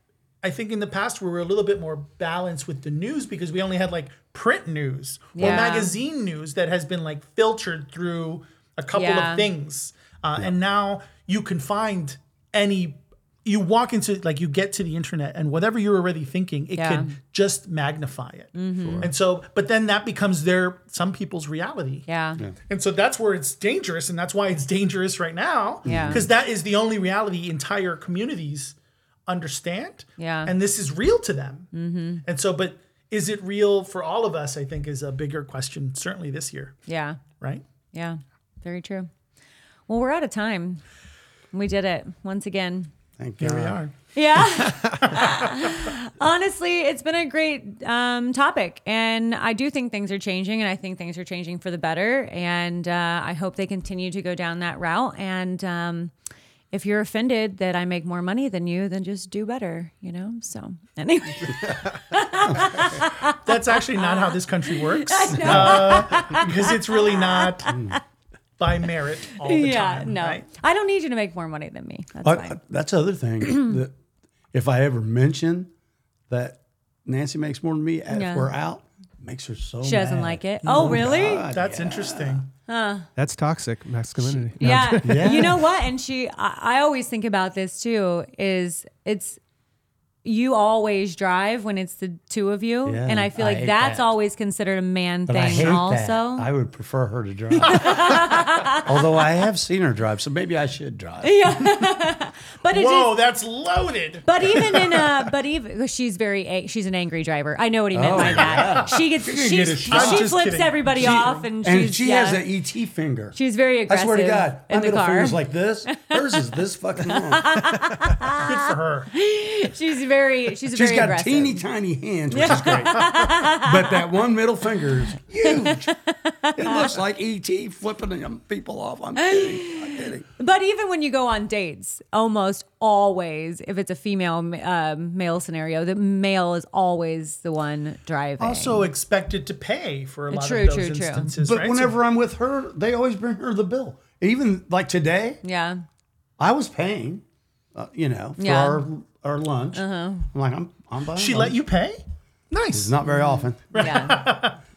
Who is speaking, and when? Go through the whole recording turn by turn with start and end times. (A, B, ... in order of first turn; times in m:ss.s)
0:00.4-0:22.0 A
0:05.3-0:05.9 B
0:08.9-0:09.4 B
0:16.8-0:17.1 B
0:18.5-0:19.1 B
0:18.8-0:19.1 C
0:22.1-0:22.4 B
0:22.7-0:28.8 A
0:25.8-0:26.2 B
0:25.8-0:26.2 C
0:29.3-0:31.7 A
0:30.2-0:30.5 B
0:31.7-0:32.2 B
0:32.2-0:36.8 A
0:36.9-0:37.2 B
0:37.9-0:39.1 B
0:39.9-0:40.8 B
0:41.5-0:42.9 B
0:43.2-0:43.8 C
0:43.4-0:45.8 A
0:44.1-0:56.1 B
0:56.7-1:03.4 B
1:02.5-1:02.9 C
1:03.3-1:07.8 A
1:04.0-1:08.0 B
1:05.4-1:06.2 C
1:07.7-1:08.0 C
1:08.6-1:10.4 A
1:09.4-1:12.6 B
1:12.2-1:13.9 C
1:14.5-1:15.7 C
1:16.3-1:22.4 C
1:18.1-1:18.5 B
1:19.8-1:21.4 B
1:20.6-1:22.5 A
1:22.7-1:23.1 B
1:23.2-1:25.6 D
1:24.6-1:29.4 B
1:25.0-1:25.6 C
1:30.2-1:36.5 B
1:32.8-1:34.1 C
1:35.3-1:41.6 C
1:37.6-1:38.9 B
1:41.2-1:43.1 B
1:42.7-1:45.1 A
1:44.2-1:52.4 B
1:47.9-1:50.3 C
1:48.2-1:51.3 A
1:50.9-1:53.4 C
1:53.3-1:56.4 B
1:53.9-1:57.8 C
1:57.0-2:01.6 B
1:58.3-1:59.1 A
2:00.7-2:05.9 C
2:02.3-2:04.0 B
2:02.5-2:03.1 A
2:05.4-2:06.9 B
2:06.6-2:10.2 C
2:09.2-2:18.9 B
2:18.4-2:22.0 A
2:20.3-2:21.3 B
2:21.4-2:25.4 C
2:25.4-2:25.8 B
2:26.4-2:31.5 C
2:28.4-2:28.8 B
2:29.7-2:30.3 B
2:31.1-2:33.0 A
2:32.7-2:33.8 C
2:33.7-2:34.6 A
2:33.7-2:34.3 B